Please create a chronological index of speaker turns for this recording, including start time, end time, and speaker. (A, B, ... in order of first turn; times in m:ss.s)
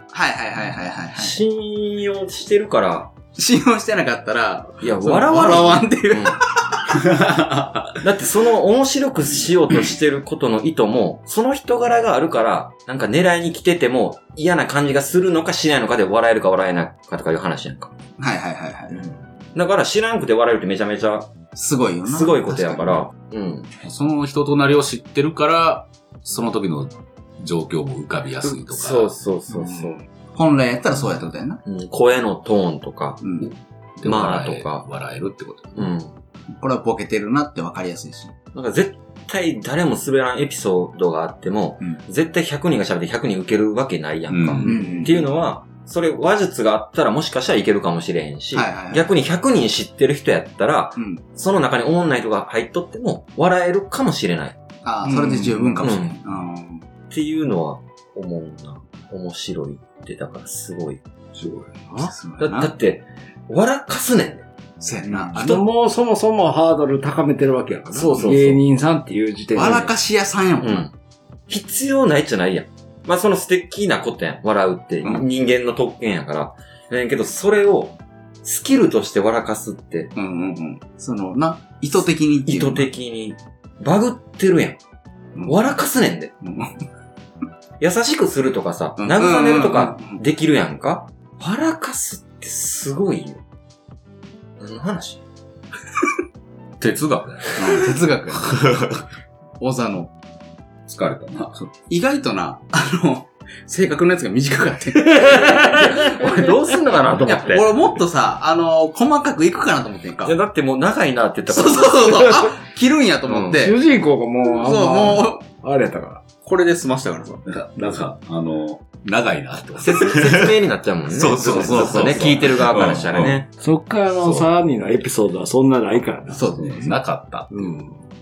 0:00.1-0:01.4 A
0:01.1-0:03.1 B
0:03.4-0:06.8 A
0:04.8-0:06.4 B
0:06.9-0:08.0 C
0:08.0-0:17.9 B
0:18.2-0:19.1 A
0:19.0-0:21.3 B
0:21.5-0:23.0 A
0:22.0-0:23.7 B
0:23.8-0:29.1 C
0:28.4-0:30.0 B
0:30.3-0:31.6 A
0:31.6-0:34.8 B
0:33.2-0:33.5 A
0:34.0-0:35.9 C
0:35.8-0:36.1 B
0:36.5-0:38.3 A
0:38.5-0:54.6 B
0:44.3-0:44.7 C
0:44.6-0:45.3 A
0:44.6-0:45.1 D
0:48.5-0:49.1 A
0:54.8-0:56.8 A
0:55.1-0:55.8 D
0:55.8-0:56.2 B
0:57.1-1:01.0 B
1:01.3-1:02.1 D
1:02.0-1:02.7 A
1:02.4-1:04.4 B
1:04.8-1:05.6 A
1:05.0-1:09.9 D
1:07.9-1:08.6 B
1:09.5-1:10.9 A
1:10.6-1:10.9 B
1:11.5-1:20.1 B
1:20.2-1:22.9 A
1:22.4-1:24.8 B
1:25.4-1:26.3 B
1:26.4-1:26.8 A
1:27.8-1:33.4 B
1:29.0-1:30.2 A
1:34.6-1:35.2 B
1:36.8-1:39.0 C
1:37.6-1:38.7 A
1:39.6-1:40.1 A
1:40.9-1:41.6 C
1:41.7-1:45.8 A
1:45.0-1:46.3 D
1:45.5-1:47.8 B
1:47.0-1:47.3 C
1:47.2-1:50.3 A
1:50.2-1:52.5 B
1:51.5-1:53.8 A
1:53.3-1:53.6 B
1:53.5-1:56.2 D
1:54.6-1:55.4 A
1:56.4-1:57.4 A
1:57.4-2:03.4 C
1:59.8-2:03.5 B
2:01.5-2:02.1 A
2:03.6-2:06.6 D
2:04.2-2:04.5 C
2:06.3-2:07.0 A
2:06.5-2:07.9 C
2:07.5-2:08.0 D